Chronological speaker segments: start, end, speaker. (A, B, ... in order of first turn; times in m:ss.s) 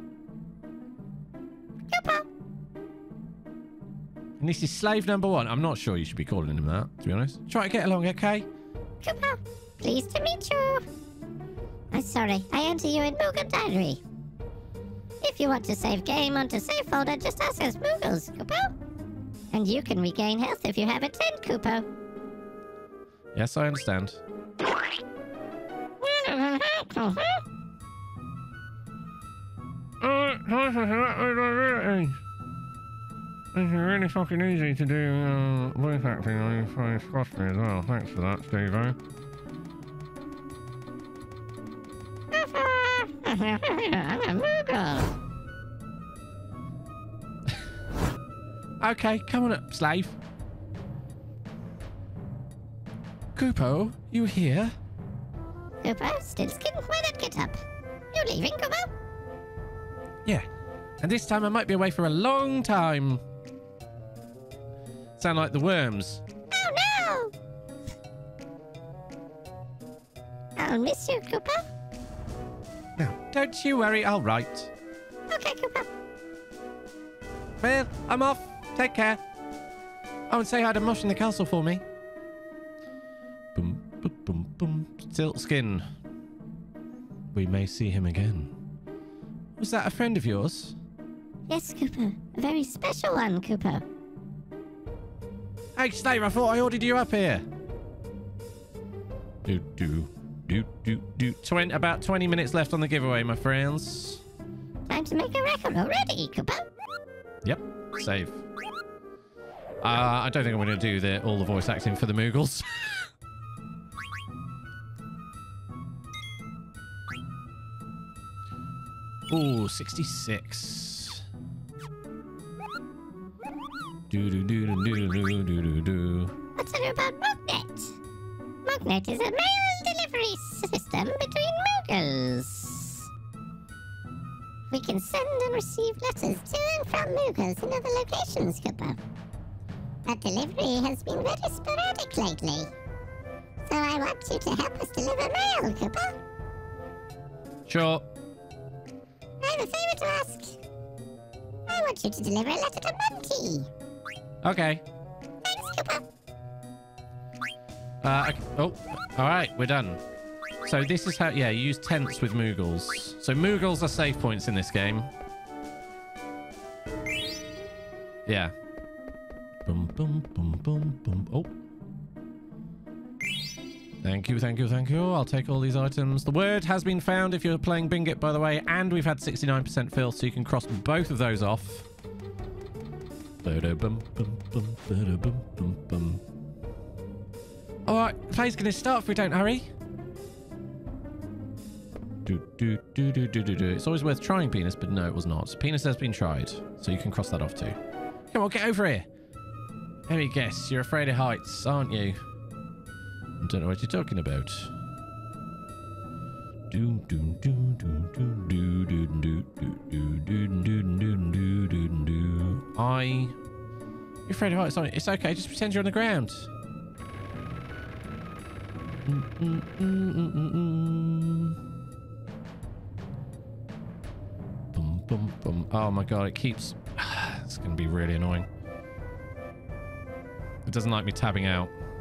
0:01.9-0:02.2 A
0:04.4-0:08.5 B
0:09.0-0:10.8 A
0:11.9-0:14.0 A
0:15.2-0:18.7 A
0:19.5-0:21.9 A
0:23.3-0:24.2 B
0:26.0-0:27.4 A
0:30.0-0:32.2 B
0:33.5-0:39.0 B
0:42.3-0:45.1 A
0:48.8-0:50.2 B
0:53.3-0:54.7 B
0:55.8-0:57.6 A
0:58.1-0:58.9 A
1:01.0-1:03.2 B
1:05.2-1:06.2 B
1:06.5-1:07.3 A
1:10.6-1:11.6 A
1:13.0-1:14.7 B
1:15.3-1:15.9 A
1:17.6-1:19.2 B
1:20.3-1:21.8 B
1:23.5-1:25.8 B
1:27.3-1:28.5 B
1:29.6-1:30.8 B
1:31.5-1:33.8 A
1:35.8-1:37.4 B
1:39.4-1:44.2 B
1:44.9-1:46.6 A
1:47.4-1:48.4 B
1:49.8-1:53.0 B
1:59.3-2:01.2 B
2:04.1-2:06.3 B
2:06.6-2:08.0 A
2:08.6-2:13.1 A
2:14.7-2:19.0 A
2:20.0-2:22.7 A
2:23.7-2:26.2 A
2:27.7-2:28.0 B
2:29.4-2:30.6 A
2:31.7-2:33.7 A
2:34.4-2:34.8 B
2:35.4-2:36.0 A
2:38.0-2:40.0 B
2:40.6-2:45.1 B
2:48.2-2:48.5 B
2:49.6-2:51.5 B
2:54.0-3:01.9 B
3:03.4-3:06.2 B
3:07.8-3:09.7 B
3:12.2-3:17.8 B
3:18.3-3:19.1 B
3:20.1-3:22.2 B
3:23.4-3:24.7 B
3:26.7-3:33.4 B
3:34.3-3:36.5 B
3:39.0-3:41.6 B
3:44.7-3:48.5 B
3:50.6-3:51.7 B